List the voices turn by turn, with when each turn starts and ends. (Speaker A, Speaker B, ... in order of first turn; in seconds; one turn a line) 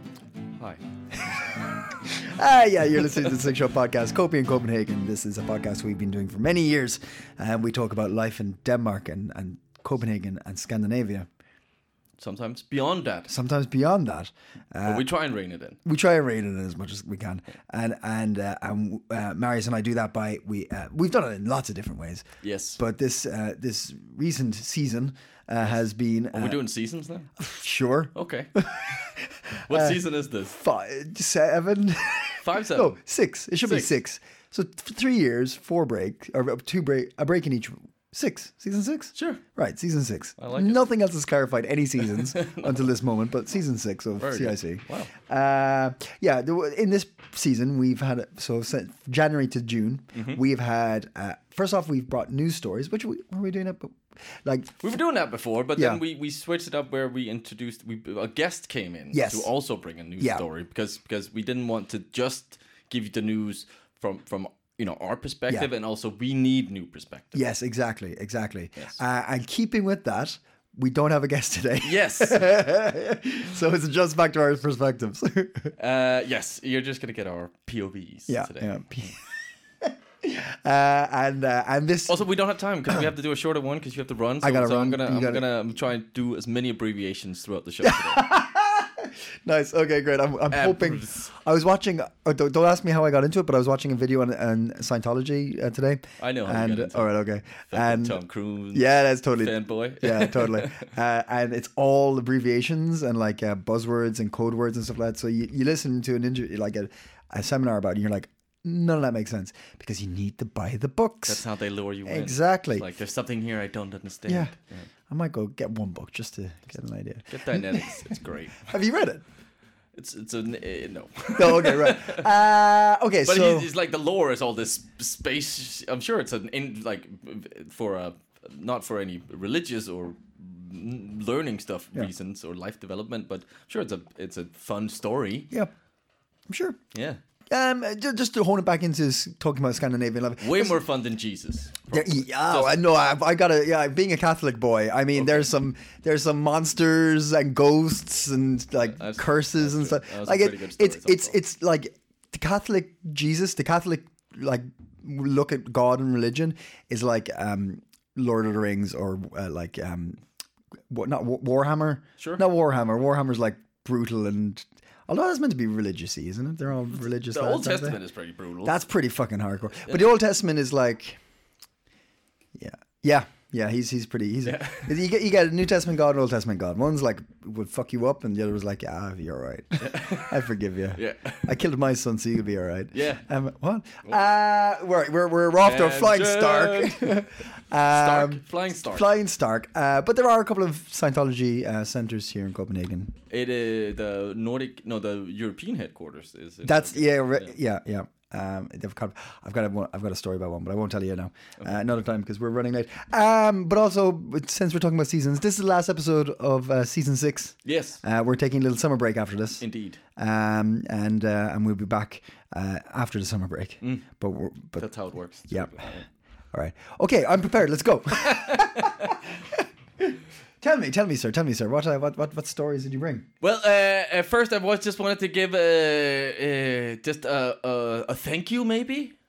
Speaker A: 0.6-1.3
Speaker B: 1.2-11.3
Speaker A: 12.2-13.3
Speaker B: 13.3-15.1
Speaker A: 14.8-15.8
Speaker B: 15.8-22.2
Speaker A: 22.4-22.8
Speaker B: 22.8-26.6
Speaker A: 26.3-27.3
Speaker B: 27.4-30.0
Speaker A: 28.1-28.5
Speaker A: 29.7-30.6
Speaker B: 30.5-54.8
Speaker A: 32.4-33.0
Speaker A: 33.6-33.9
Speaker A: 39.1-39.4
Speaker A: 40.4-40.8
Speaker A: 42.3-42.8
Speaker A: 44.2-45.1
Speaker A: 50.1-50.4
Speaker A: 54.8-67.4
Speaker B: 55.8-56.0
Speaker B: 59.1-59.5
Speaker B: 60.2-60.4
Speaker B: 67.3-75.7
Speaker A: 71.8-72.5
Speaker A: 75.8-79.1
Speaker B: 78.3-79.2
Speaker B: 79.8-82.2
Speaker A: 82.1-88.2
Speaker B: 84.4-85.5
Speaker B: 87.8-98.2
Speaker A: 90.5-91.3
Speaker A: 96.2-100.9
Speaker B: 98.7-111.4
Speaker A: 111.3-114.9
Speaker B: 112.1-112.8
Speaker B: 114.3-114.5
Speaker B: 115.1-119.2
Speaker A: 117.3-118.7
Speaker A: 119.9-122.2
Speaker B: 121.4-123.7
Speaker A: 123.2-135.5
Speaker B: 136.5-136.8
Speaker A: 136.9-137.2
Speaker B: 137.5-140.8
Speaker A: 140.4-142.7
Speaker B: 141.9-160.2
Speaker A: 145.1-145.5
Speaker A: 148.8-151.4
Speaker B: 160.9-168.0
Speaker A: 166.9-168.8
Speaker B: 168.6-171.2
Speaker A: 169.7-170.0
Speaker B: 172.5-193.1
Speaker A: 174.4-174.9
Speaker A: 179.8-181.6
Speaker A: 182.9-183.2
Speaker A: 185.6-187.2
Speaker A: 187.9-189.1
Speaker A: 193.3-197.5
Speaker B: 196.6-209.6
Speaker A: 207.6-208.0
Speaker A: 209.6-210.0
Speaker B: 210.2-214.8
Speaker A: 214.8-216.1
Speaker B: 215.5-215.8
Speaker B: 216.5-223.2
Speaker A: 218.2-219.2
Speaker A: 223.4-229.2